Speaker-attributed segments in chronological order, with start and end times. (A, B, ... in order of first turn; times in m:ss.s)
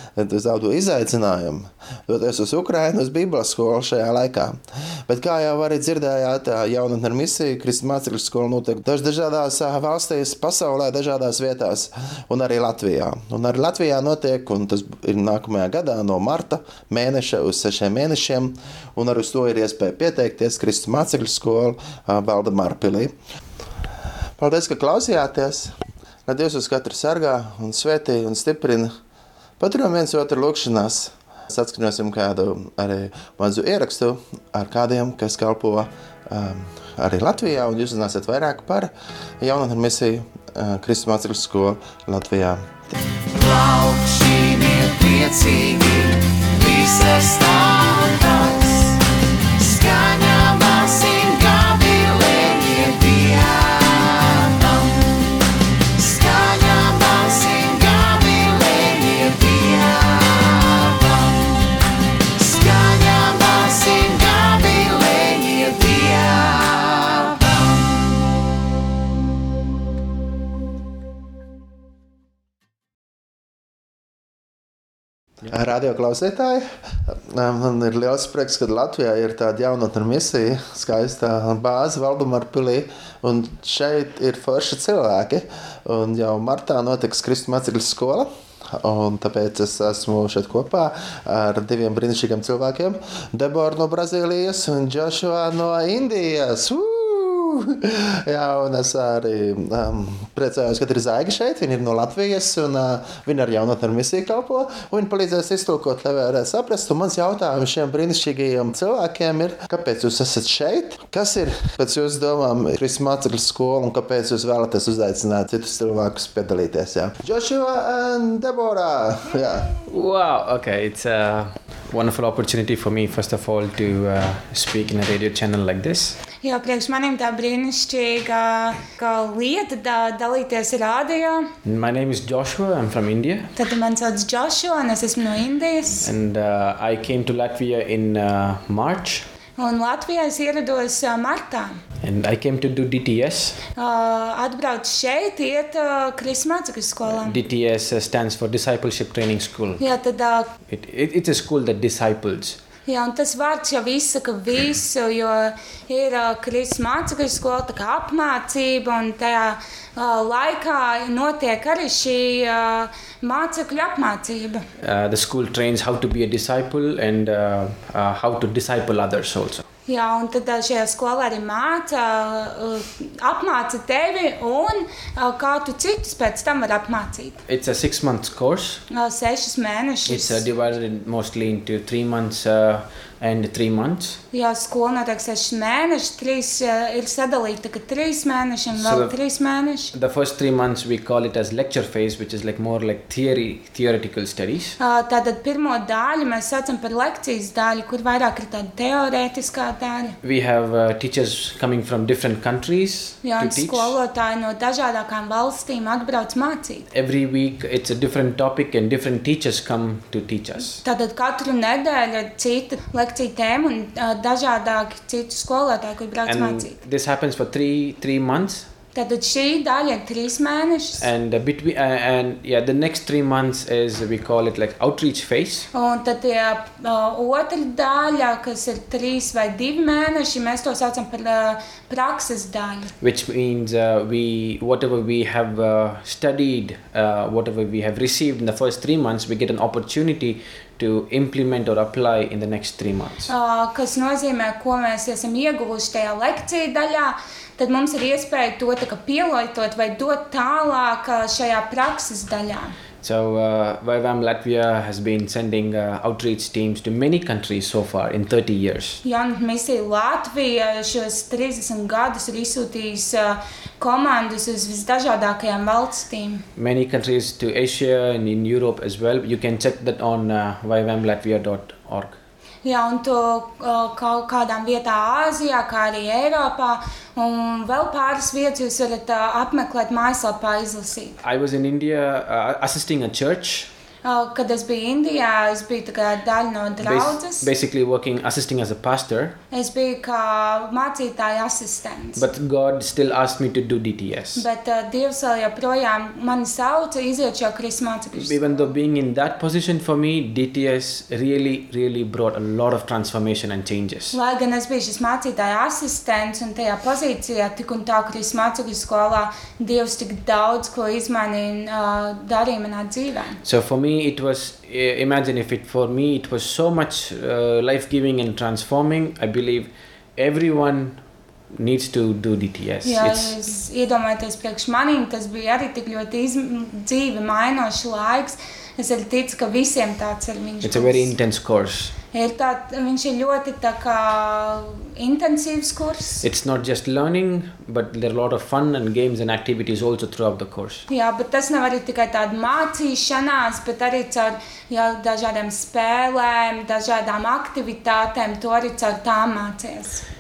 0:00.2-0:23.1 A
0:24.4-0:25.7 A
0:26.3-0:28.9 A
0:29.6-0:42.9 A
0:43.3-0:49.0 B
0:49.6-0:55.0 B
0:56.0-1:01.6 B
1:02.4-1:07.8 B
1:15.5-1:59.7 A
1:59.9-2:06.2 C
2:06.4-2:11.5 D
2:11.6-2:13.5 C
2:13.6-2:16.1 D
2:16.0-2:19.3 C
2:19.6-2:21.8 D
2:22.0-2:23.6 C
2:23.8-2:27.4 D
2:27.1-2:29.8 C
2:29.8-2:30.5 D
2:30.7-2:32.6 C
2:32.9-2:44.6 D
2:44.8-2:49.6 C
2:49.9-2:57.4 D
2:57.5-2:58.8 C
2:58.9-3:00.4 D
3:00.1-3:04.2 C
3:04.3-3:09.9 D
3:08.7-3:09.1 C
3:09.9-3:14.8 C
3:14.8-3:20.2 D
3:20.2-3:24.0 C
3:23.2-3:26.8 D
3:26.9-3:30.8 C
3:30.8-3:36.8 D
3:36.3-3:38.7 C
3:39.0-3:41.1 D
3:41.0-3:45.7 C
3:45.7-3:52.9 D
3:53.0-4:03.3 C
4:03.3-4:12.7 D
4:13.0-4:19.0 C
4:19.0-4:26.4 D
4:26.6-4:32.2 C
4:32.6-4:41.2 D
4:41.2-4:43.7 C
4:44.0-4:47.5 D
4:46.8-4:49.4 C
4:49.5-4:52.3 D
4:52.2-4:54.4 C
4:54.4-4:58.7 D
4:58.2-5:04.2 C
5:04.1-5:13.4 D
5:13.4-5:23.4 C
5:22.8-5:31.1 D
5:30.6-5:31.9 C
5:32.1-5:36.2 D
5:36.2-5:40.8 C
5:40.9-5:50.0 D